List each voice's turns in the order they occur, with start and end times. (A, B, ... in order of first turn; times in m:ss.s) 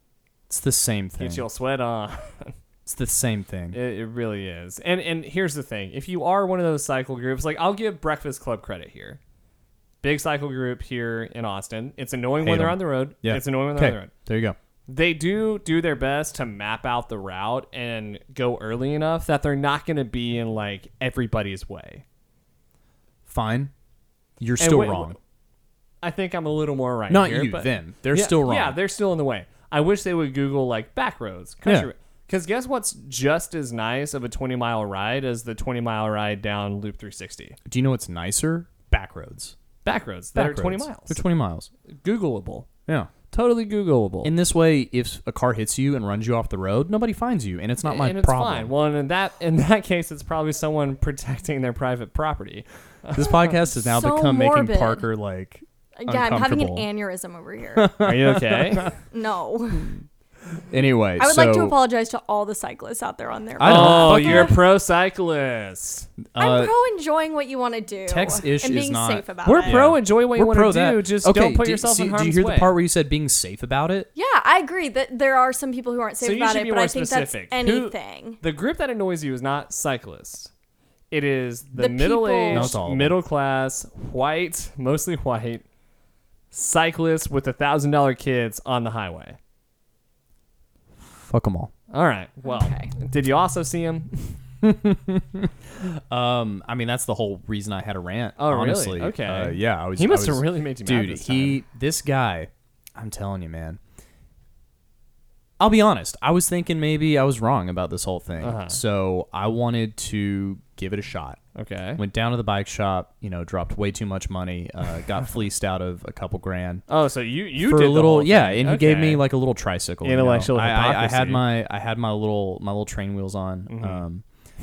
0:00.5-0:01.4 A
0:01.2-0:02.6 B
0:02.9-0:03.8 A
0:03.7-0:09.2 B
0:10.0-0:14.1 B
0:12.4-0:14.6 A
0:14.9-0:22.0 B
0:23.3-0:23.7 A
0:24.4-0:25.2 A
0:24.6-0:25.2 B
0:26.0-0:37.6 B
0:27.1-0:28.8 A
0:31.6-0:31.9 A
0:37.7-0:39.6 A
0:39.8-0:41.2 B
0:40.3-0:41.7 A
0:41.9-0:42.7 B
0:43.3-0:44.3 B
0:44.2-0:48.7 A
0:47.8-0:53.3 B
0:53.1-0:56.9 A
0:53.7-0:55.0 C
0:56.0-0:57.9 C
0:57.8-0:58.9 A
0:58.0-0:58.9 B
0:59.0-1:00.0 C
1:00.7-1:01.8 A
1:01.2-1:04.6 C
1:03.6-1:04.6 A
1:03.6-1:06.1 B
1:06.3-1:06.7 A
1:06.4-1:09.8 C
1:08.1-1:14.1 A
1:09.4-1:12.7 B
1:14.2-1:18.4 C
1:16.2-1:20.5 B
1:21.1-1:25.6 B
1:21.8-1:22.8 C
1:22.5-1:23.2 A
1:26.5-1:29.4 B
1:31.0-1:31.7 A
1:31.9-1:34.4 B
1:32.4-1:32.9 C
1:34.6-1:43.8 A
1:38.4-1:41.6 B
1:45.6-1:51.4 A
1:48.4-1:48.8 B
1:51.6-1:52.0 B
1:52.0-1:56.8 A
1:56.9-1:59.2 B
1:57.6-2:04.2 A
2:00.0-2:01.5 B
2:03.7-2:04.0 B